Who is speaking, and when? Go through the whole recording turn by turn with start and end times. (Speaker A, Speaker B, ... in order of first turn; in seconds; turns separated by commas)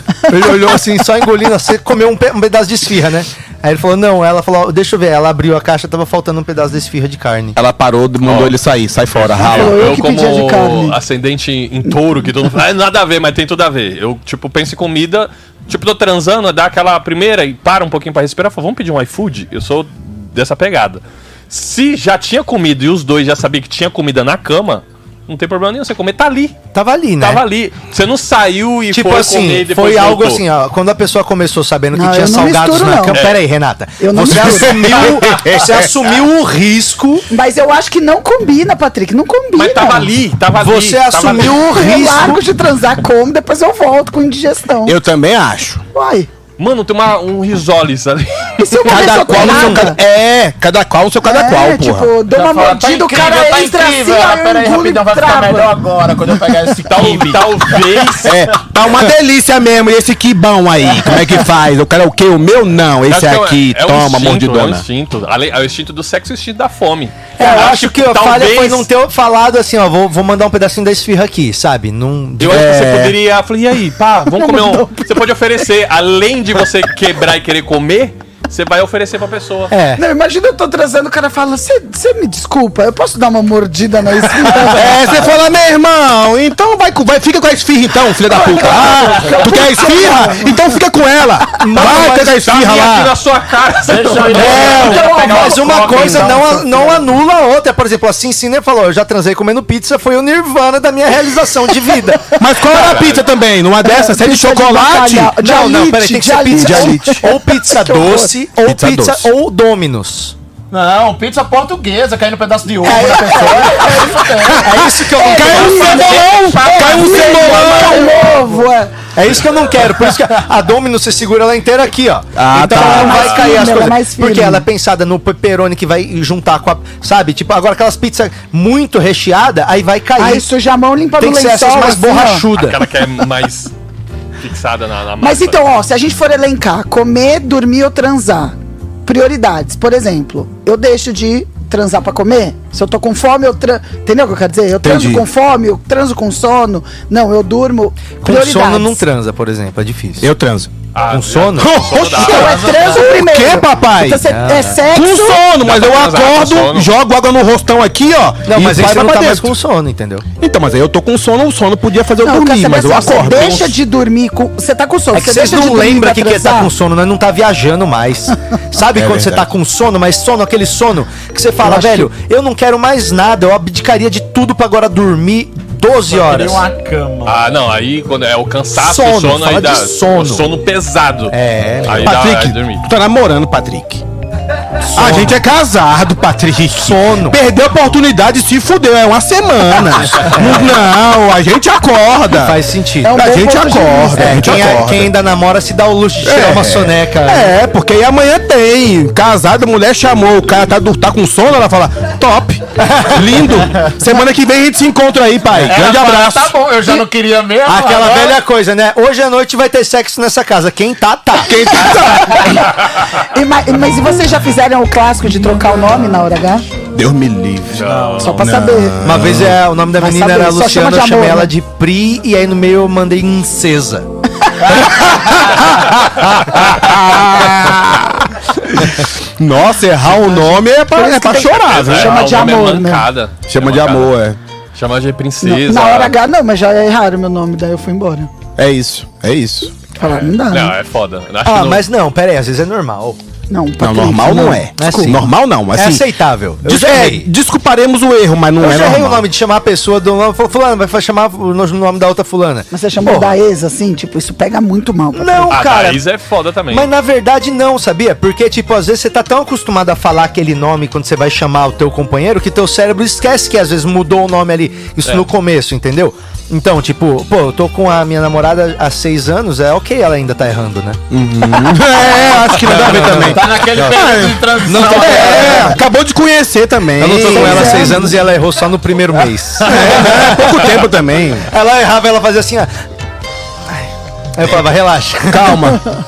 Speaker A: 0.3-7.6, Speaker B: 7.5-9.9, Speaker C: 8.2-8.6, Speaker C: 9.1-26.6, Speaker D: 9.5-11.0, Speaker A: 26.7-27.4, Speaker C: 27.2-30.4, Speaker A: 28.9-37.3, Speaker D: 31.9-33.2, Speaker C: 33.1-33.4, Speaker D: 34.0-34.8, Speaker B: 34.5-35.7, Speaker D: 37.3-40.1, Speaker C: 39.5-41.6, Speaker A: 40.6-42.4, Speaker D: 41.5-45.0, Speaker B: 44.8-45.8, Speaker D: 45.9-46.3, Speaker C: 46.6-48.9, Speaker D: 48.6-50.0, Speaker B: 48.9-52.1, Speaker A: 48.9-49.9, Speaker D: 51.2-55.7, Speaker E: 52.3-58.0, Speaker C: 56.9-58.3, Speaker B: 58.2-64.8, Speaker C: 63.1-68.9, Speaker D: 67.4-67.7, Speaker A: 67.4-72.7, Speaker C: 72.4-79.7, Speaker B: 72.4-73.2, Speaker D: 74.3-75.1, Speaker A: 79.7-80.0, Speaker D: 80.0-85.1, Speaker B: 84.6-93.1, Speaker D: 88.3-90.6, Speaker A: 91.6-92.6, Speaker C: 91.8-94.9, Speaker E: 93.8-97.0, Speaker B: 94.3-95.2, Speaker A: 94.8-102.4, Speaker D: 94.8-96.3, Speaker B: 102.4-105.4, Speaker C: 102.7-103.3, Speaker D: 103.8-108.3, Speaker A: 105.4-110.3, Speaker B: 106.5-107.2, Speaker B: 108.6-109.3, Speaker E: 110.7-118.6, Speaker A: 112.8-116.2, Speaker D: 113.4-113.8, Speaker B: 114.5-118.2, Speaker D: 115.2-118.9, Speaker A: 119.1-130.5, Speaker B: 122.3-123.3, Speaker D: 122.7-124.7, Speaker C: 123.0-123.6, Speaker D: 130.2-132.4, Speaker A: 131.2-132.8, Speaker C: 132.5-133.7, Speaker C: 134.4-135.6, Speaker D: 135.2-149.0, Speaker B: 144.8-145.2, Speaker A: 148.2-150.3, Speaker B: 150.2-150.7, Speaker C: 150.9-153.1, Speaker A: 151.1-151.7, Speaker B: 151.6-154.3, Speaker D: 152.2-155.4, Speaker A: 154.2-154.8, Speaker B: 154.8-159.5, Speaker C: 155.6-156.9, Speaker A: 158.5-160.2, Speaker B: 160.4-163.8, Speaker D: 162.2-166.7, Speaker A: 165.1-176.7, Speaker B: 168.9-169.5, Speaker D: 171.7-172.1, Speaker E: 176.1-177.5, Speaker C: 177.2-182.8, Speaker A: 178.7-180.5, Speaker A: 181.3-182.1, Speaker B: 181.9-184.0, Speaker A: 184.9-185.4, Speaker B: 184.9-195.1, Speaker A: 186.8-187.4, Speaker A: 190.3-190.7, Speaker A: 192.3-193.2, Speaker D: 193.0-194.6, Speaker A: 194.2-197.5, Speaker B: 196.2-206.6, Speaker A: 202.8-203.3, Speaker E: 205.6-208.4, Speaker A: 207.6-211.6, Speaker B: 211.4-212.5, Speaker D: 213.1-216.6, Speaker B: 216.9-219.6, Speaker C: 217.7-218.4, Speaker D: 218.2-219.0, Speaker A: 219.0-224.1, Speaker D: 220.0-221.5, Speaker B: 224.9-232.4, Speaker D: 230.3-233.1, Speaker C: 231.7-234.1, Speaker B: 233.5-234.4, Speaker C: 234.7-236.1, Speaker D: 235.4-238.3, Speaker B: 238.6-239.7, Speaker D: 240.0-240.7, Speaker C: 240.0-241.8, Speaker A: 241.4-243.2, Speaker D: 243.5-245.1, Speaker B: 243.8-246.1, Speaker A: 244.8-247.3, Speaker B: 246.6-249.2, Speaker A: 248.6-253.3, Speaker D: 252.7-255.5, Speaker A: 255.1-256.0, Speaker C: 255.5-256.9, Speaker A: 256.7-271.0, Speaker B: 271.1-278.0, Speaker A: 272.6-275.8, Speaker E: 273.0-275.7, Speaker A: 277.0-280.9, Speaker D: 277.2-278.1, Speaker B: 279.6-281.5, Speaker A: 281.4-282.7, Speaker A: 283.7-285.6, Speaker B: 285.3-285.8